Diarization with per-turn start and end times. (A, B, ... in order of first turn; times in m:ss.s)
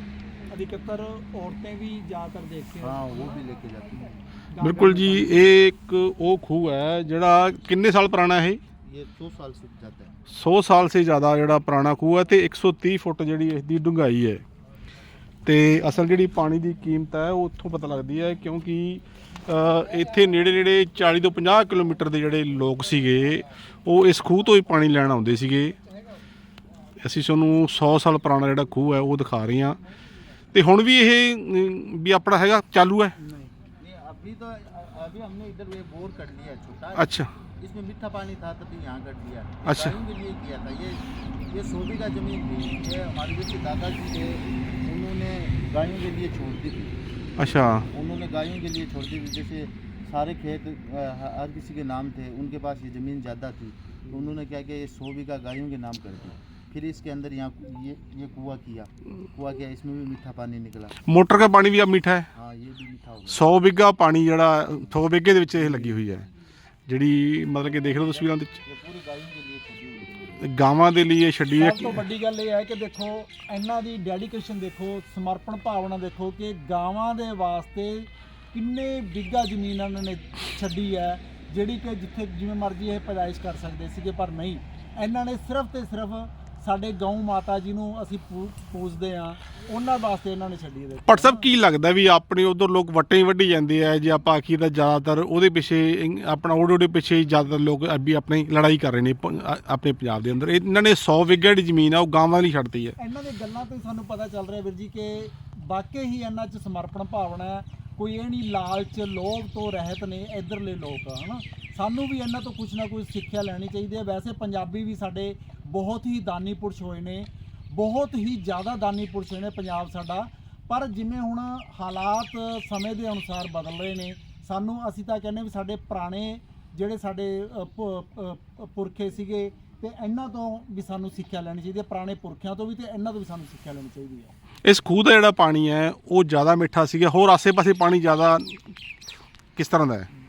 0:00.5-0:03.4 A
0:02.8-0:04.2 B
0:04.5-0:05.5 A
0:04.6-0:08.6 C
0:08.8-0:10.2 B
0:10.3-0:14.4 C
0:15.5-0:25.8 C
0:27.0-0:29.8 C
0:30.5-0:33.2 C
0:33.2-0:33.6 A
0:33.8-0:47.0 B
0:37.0-0:37.3 C
0:39.6-0:40.0 C
0:47.4-0:47.9 C
0:47.6-1:01.0 B
1:01.1-1:02.3 C
1:02.3-1:03.5 B
1:03.3-1:06.2 C
1:04.8-1:06.3 B
1:06.9-1:08.5 C
1:07.7-1:10.5 B
1:10.4-1:12.0 C
1:11.6-1:31.5 A
1:31.1-1:42.9 C
1:43.0-2:14.3 A
2:14.6-2:18.6 C
2:19.6-2:20.1 C